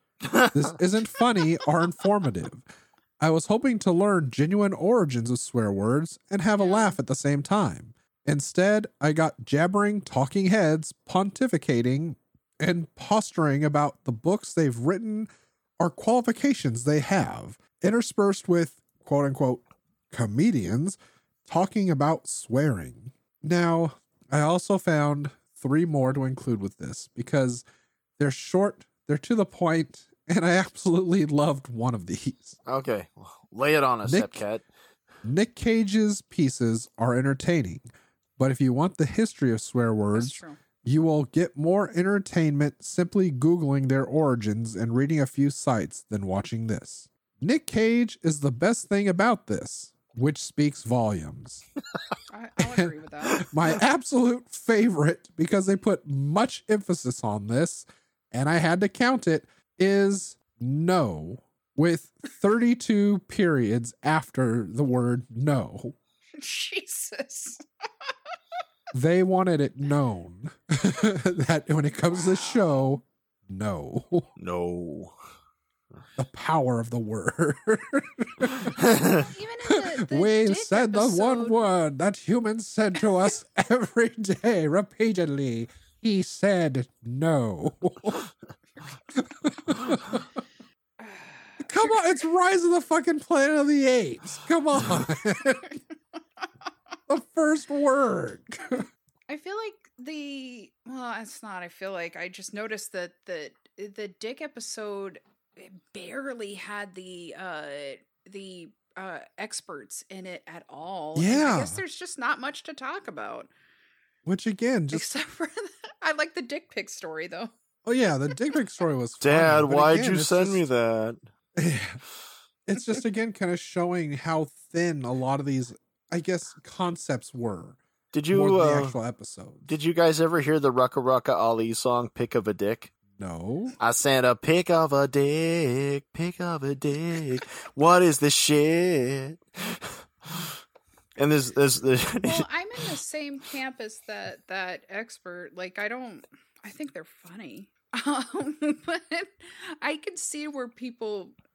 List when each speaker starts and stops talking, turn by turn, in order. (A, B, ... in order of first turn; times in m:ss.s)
0:00.2-0:00.7 A
0:00.5-0:02.6 B
0:03.2-0:15.3 B
0:06.6-0:07.0 C
0:15.8-0:27.6 B
0:28.2-0:32.6 B
0:32.6-0:34.6 A
0:34.0-0:34.4 B
0:35.2-0:37.9 B
0:38.4-0:51.6 B
0:40.1-0:40.6 C
0:52.3-0:53.5 C
0:52.6-1:06.0 B
1:06.4-1:07.6 C
1:08.9-1:14.3 B
1:12.2-1:12.6 C
1:14.4-1:15.1 A
1:16.2-1:18.8 B
1:18.8-1:19.2 A
1:19.0-1:21.6 C
1:19.6-1:28.2 B
1:29.1-1:30.4 B
1:31.0-1:32.2 C
1:31.6-1:35.8 B
1:37.1-1:38.8 B
1:39.3-1:53.5 C
1:51.1-1:51.8 B
1:54.2-1:55.1 B
1:54.9-1:57.5 C
1:57.8-2:00.6 B
1:59.2-2:01.2 A
2:01.6-2:02.0 B
2:02.6-2:07.8 B
2:08.1-2:08.9 A
2:08.3-2:09.7 B
2:09.7-2:12.9 A
2:13.1-2:13.7 B
2:13.8-2:20.5 A
2:21.2-2:22.4 A
2:22.2-2:31.4 C